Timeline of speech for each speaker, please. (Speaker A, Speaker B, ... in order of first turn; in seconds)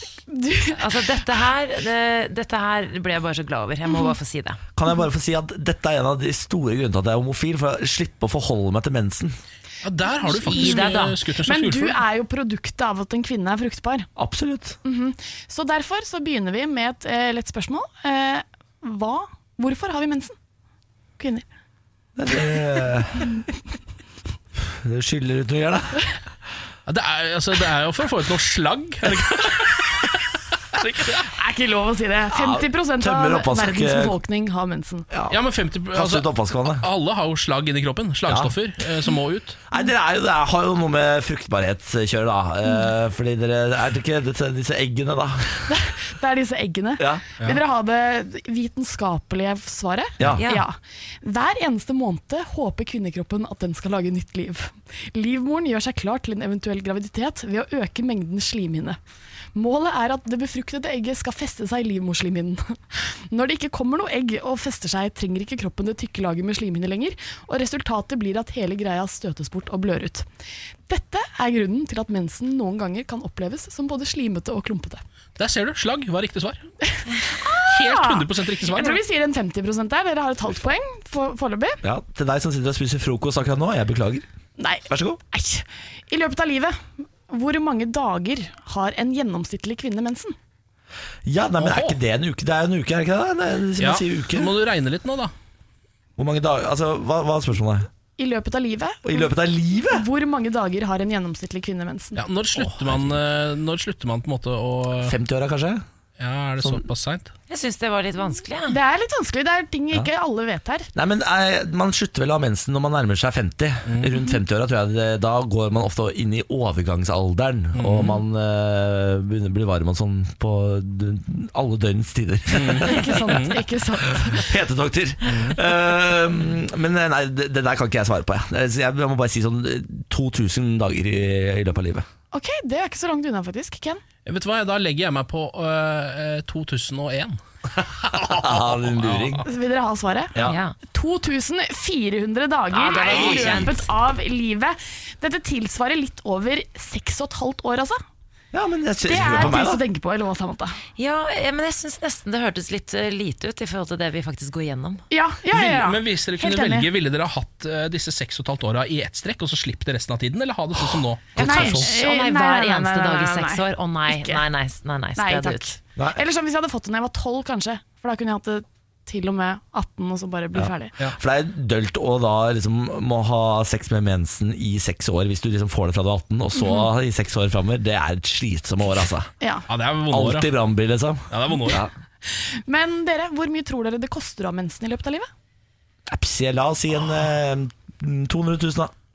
Speaker A: 0.3-1.1, 3.9-4.1, 10.1-14.1, 14.8-20.3, 21.2-21.4, 31.1-35.1, 45.7-59.0, 59.5-70.2, 70.9-75.0, 76.8-81.8, 84.6-90.3, 98.2-99.3, 99.9-102.2, 108.7-110.9, 122.7-124.5, 132.3-134.0, 139.4-148.0, 149.0-150.8, 155.1-156.9, 161.4-164.4, 165.2-170.9, 176.6-176.8, 179.4-179.7, 182.2-185.3
Speaker B: 0.7-4.6, 10.5-11.2, 50.4-50.6, 107.5-108.8, 140.4-140.8, 142.7-143.9, 151.0-155.0, 161.4-165.7
Speaker C: 4.8-9.4, 14.2-14.8, 22.1-23.3, 24.6-26.0, 32.3-34.2, 35.1-35.4, 35.9-36.8, 38.3-38.5, 39.7-45.8, 81.8-84.3, 84.9-85.2, 91.2-94.5, 96.2-97.9, 99.0-100.1, 102.6-103.1, 105.0-105.8, 110.9-123.4, 124.3-132.1, 138.1-139.4, 148.5-149.8, 161.4-161.8, 170.6-179.3, 180.1-181.9, 186.1-188.9
Speaker D: 9.8-12.0, 26.9-31.3, 35.3-39.6, 75.4-76.6, 77.6-79.0, 91.6-92.0, 93.8-95.3, 102.2-105.1, 106.2-107.3, 113.9-114.1, 117.7-118.2, 122.5-123.6, 125.2-125.6, 134.2-137.4, 138.0-139.4, 143.1-143.6, 155.5-161.9, 179.7-180.5, 181.3-181.8